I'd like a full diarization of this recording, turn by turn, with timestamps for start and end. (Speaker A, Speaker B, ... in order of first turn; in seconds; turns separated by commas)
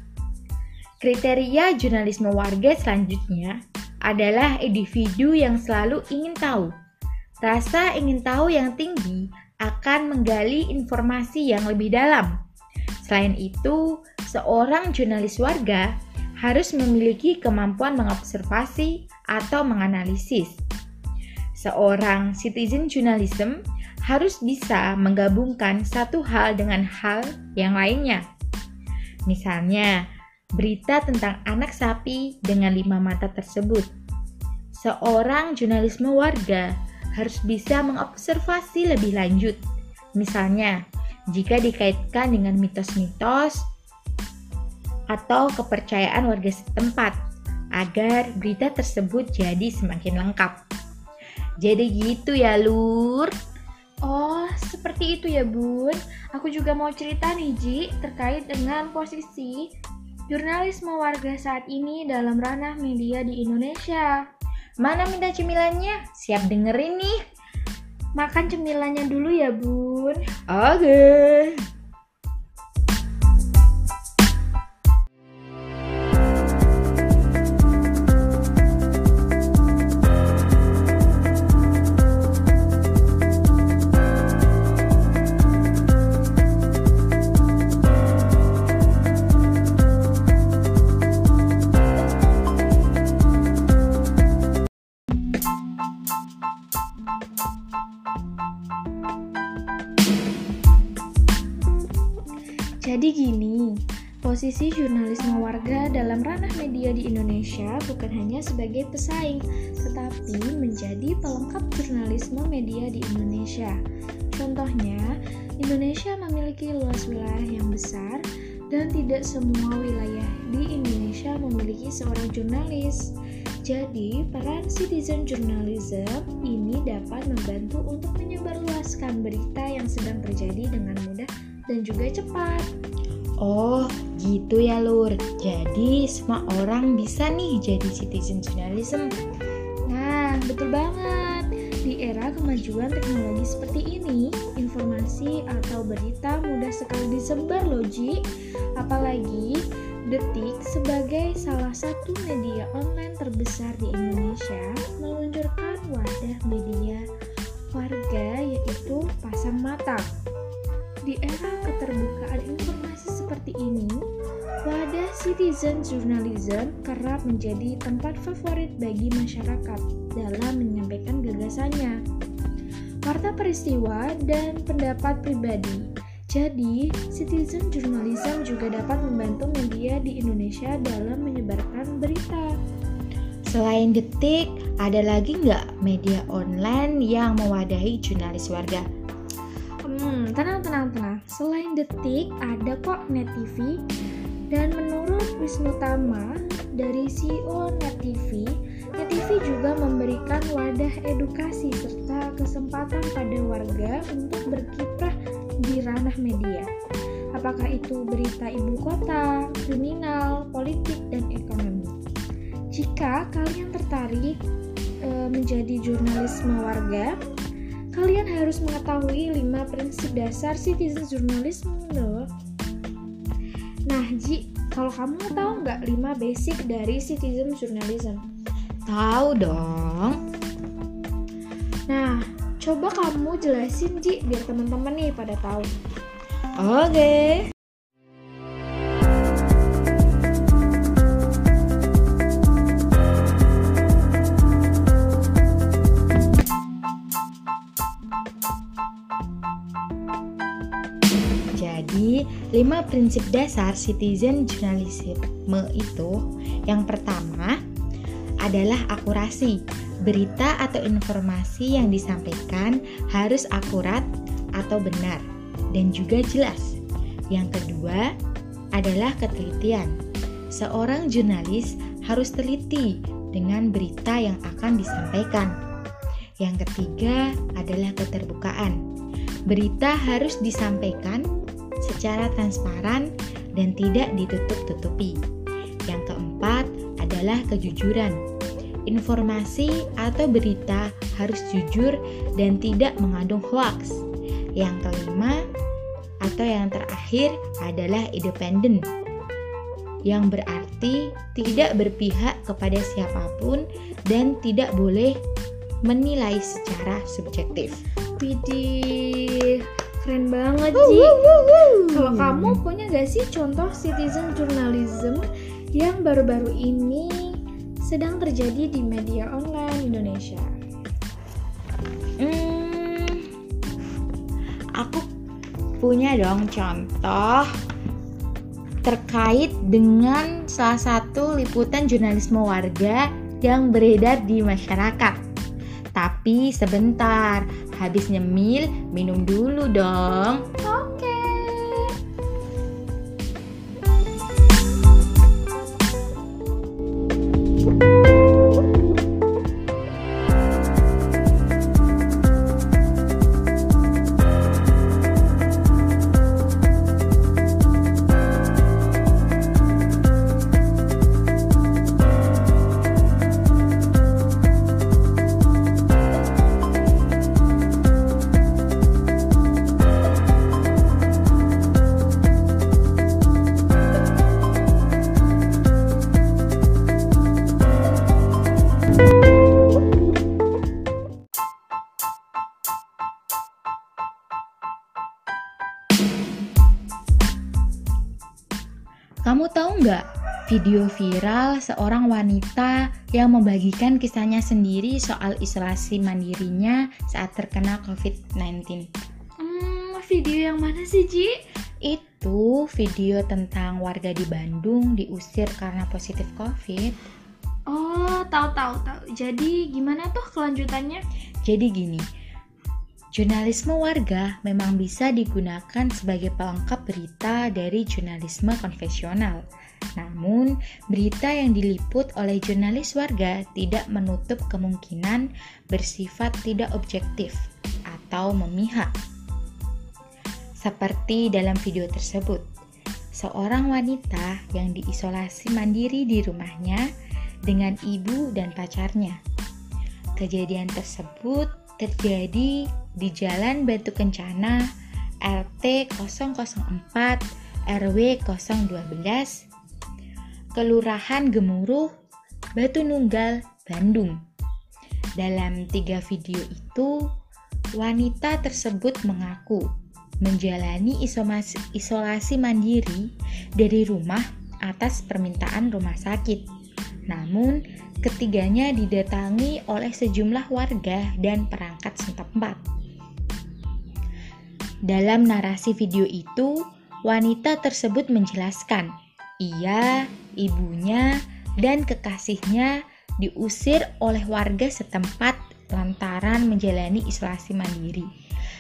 Speaker A: 1.0-6.7, Speaker A: 7.4-12.3, Speaker A: 13.0-15.9, Speaker A: 16.4-20.6, Speaker A: 21.6-23.6, Speaker A: 24.1-28.2, Speaker A: 29.3-29.9, Speaker A: 30.6-33.9, Speaker A: 34.7-36.7, Speaker A: 37.2-39.6, Speaker A: 40.2-40.8, Speaker A: 41.3-43.6, Speaker A: 45.1-47.2, Speaker A: 47.8-50.6, Speaker A: 51.6-53.3, Speaker B: 54.1-59.7, Speaker B: 60.3-64.2, Speaker A: 64.8-67.2, Speaker B: 68.2-70.3, Speaker A: 70.5-71.6, Speaker B: 102.8-113.8, Speaker B: 114.3-115.0, Speaker B: 115.6-123.1, Speaker B: 123.7-132.7, Speaker A: 133.4-139.1, Speaker B: 139.9-148.2, Speaker B: 148.8-149.6, Speaker B: 150.1-157.0, Speaker B: 157.7-160.1, Speaker B: 161.1-164.0, Speaker B: 164.6-172.0, Speaker B: 173.1-182.5, Speaker A: 183.5-188.8, Speaker B: 189.9-193.8, Speaker B: 194.5-206.7, Speaker B: 207.3-212.0, Speaker B: 212.7-214.4, Speaker B: 215.1-217.2, Speaker B: 218.0-222.3, Speaker B: 223.9-228.3, Speaker A: 228.9-230.2, Speaker B: 231.9-235.8, Speaker A: 236.6-237.5, Speaker A: 251.6-256.1, Speaker A: 256.7-257.6, Speaker A: 258.4-264.1, Speaker A: 264.6-265.2, Speaker A: 265.7-266.8, Speaker A: 267.3-268.1, Speaker A: 268.8-269.9, Speaker A: 270.5-275.5, Speaker A: 276.4-278.8, Speaker A: 279.5-281.2, Speaker A: 281.8-285.2, Speaker A: 285.9-288.2, Speaker A: 288.9-294.0, Speaker A: 294.6-295.4, Speaker A: 296.2-298.9, Speaker A: 300.1-305.1, Speaker A: 305.9-307.8, Speaker B: 308.2-311.3, Speaker A: 310.7-312.6, Speaker B: 311.9-315.2, Speaker B: 315.8-320.5, Speaker A: 322.2-323.3, Speaker A: 324.8-325.1, Speaker A: 325.8-327.5, Speaker A: 328.9-335.2, Speaker A: 335.9-340.4, Speaker B: 340.6-341.9, Speaker A: 389.3-398.9, Speaker B: 399.4-401.4, Speaker A: 401.9-407.0, Speaker B: 407.7-411.0, Speaker A: 411.5-412.0, Speaker A: 413.1-419.4, Speaker A: 420.0-428.9, Speaker A: 430.6-432.4, Speaker A: 433.1-436.9, Speaker A: 437.5-439.2, Speaker A: 440.2-444.6, Speaker A: 445.2-447.2, Speaker A: 447.7-449.5, Speaker A: 450.6-451.9, Speaker A: 452.6-454.1, Speaker A: 455.2-456.9, Speaker A: 457.8-459.6, Speaker A: 460.2-463.0, Speaker A: 463.6-466.5, Speaker A: 467.1-472.6, Speaker A: 474.9-476.5, Speaker A: 477.1-478.9, Speaker A: 479.4-481.1, Speaker A: 481.6-488.1